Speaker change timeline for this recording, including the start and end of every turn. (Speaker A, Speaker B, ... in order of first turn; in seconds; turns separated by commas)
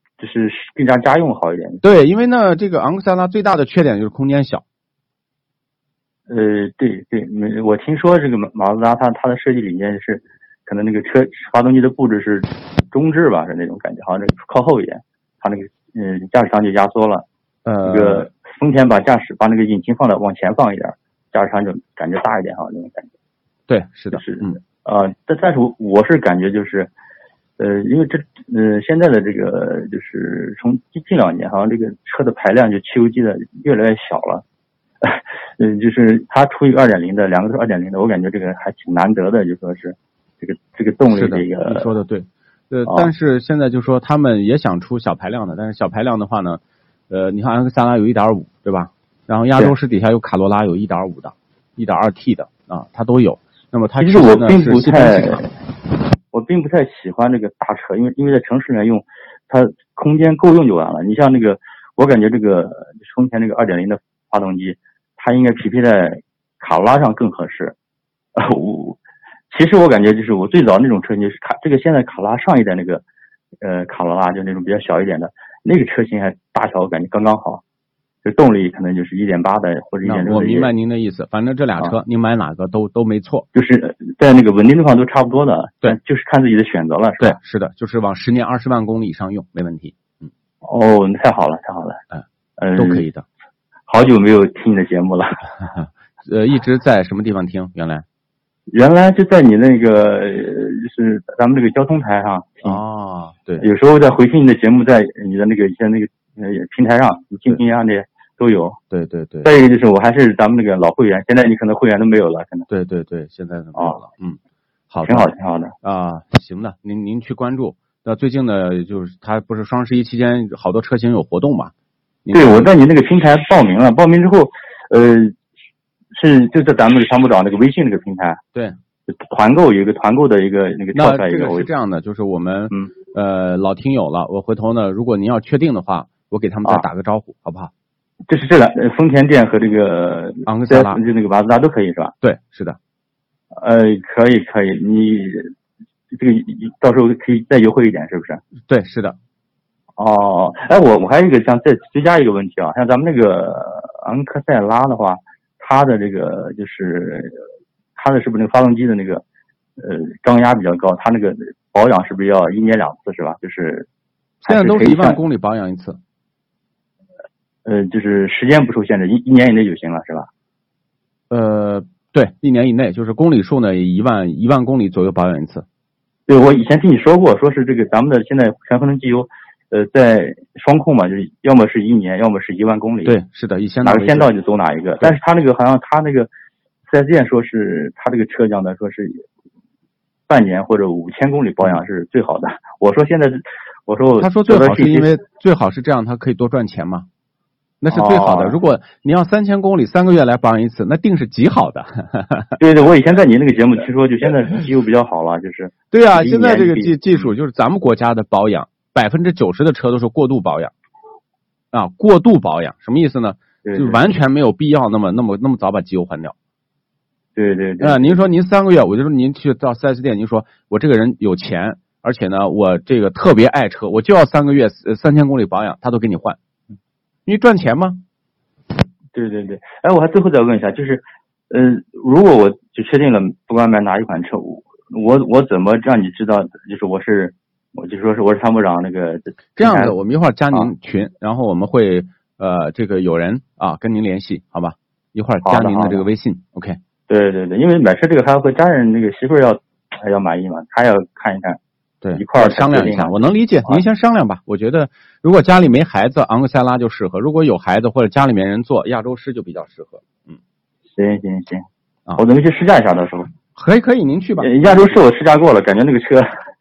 Speaker A: 0.2-1.8, Speaker B: 1.8-4.6, Speaker A: 6.3-17.2, Speaker B: 17.6-18.3, Speaker A: 17.8-23.1, Speaker B: 23.7-24.6, Speaker A: 24.1-26.9, Speaker A: 27.6-34.4, Speaker A: 35.0-41.9, Speaker B: 41.1-55.4, Speaker A: 42.9-43.1, Speaker A: 54.0-55.5, Speaker A: 56.3-67.8, Speaker A: 68.4-69.0, Speaker A: 69.5-73.0, Speaker A: 73.6-77.6, Speaker A: 78.2-80.7, Speaker B: 80.0-83.5, Speaker A: 83.5-87.4, Speaker B: 87.2-90.3, Speaker A: 90.6-92.0, Speaker A: 92.6-93.1, Speaker B: 92.8-93.2, Speaker A: 93.9-95.3, Speaker B: 95.6-98.0, Speaker A: 98.7-102.8, Speaker B: 102.6-103.7, Speaker A: 103.6-108.8, Speaker B: 108.9-109.5, Speaker A: 109.4-112.7, Speaker B: 112.7-114.4, Speaker A: 113.8-114.0, Speaker B: 114.9-115.3, Speaker A: 115.0-115.8, Speaker B: 115.8-121.7, Speaker B: 122.2-122.7, Speaker A: 122.3-125.3, Speaker A: 126.1-128.4, Speaker A: 129.1-131.7, Speaker B: 130.9-137.7, Speaker A: 138.3-142.1, Speaker B: 140.4-141.0, Speaker B: 142.2-142.8, Speaker A: 143.5-145.5, Speaker A: 146.1-148.4, Speaker B: 148.7-149.2, Speaker A: 150.0-157.4, Speaker A: 157.9-159.2, Speaker A: 159.8-163.9, Speaker B: 164.4-166.0, Speaker A: 164.4-165.2, Speaker A: 167.6-170.3, Speaker B: 171.3-175.7, Speaker A: 176.3-183.2, Speaker B: 183.1-184.3, Speaker A: 183.8-186.3, Speaker A: 186.9-189.2, Speaker A: 190.3-195.1, Speaker B: 194.2-197.1, Speaker B: 197.8-202.6, Speaker A: 197.9-198.6, Speaker A: 202.6-207.3, Speaker B: 205.9-210.7, Speaker B: 211.7-216.3, Speaker A: 213.6-214.1, Speaker A: 217.4-218.2, Speaker B: 217.8-226.4, Speaker B: 227.2-228.0, Speaker A: 229.1-240.0, Speaker B: 239.6-246.8, Speaker A: 245.4-246.1, Speaker A: 247.1-251.6, Speaker B: 252.0-260.4, Speaker A: 252.1-253.8, Speaker A: 261.0-261.6, Speaker A: 262.2-263.3, Speaker B: 263.6-265.0, Speaker A: 264.4-266.3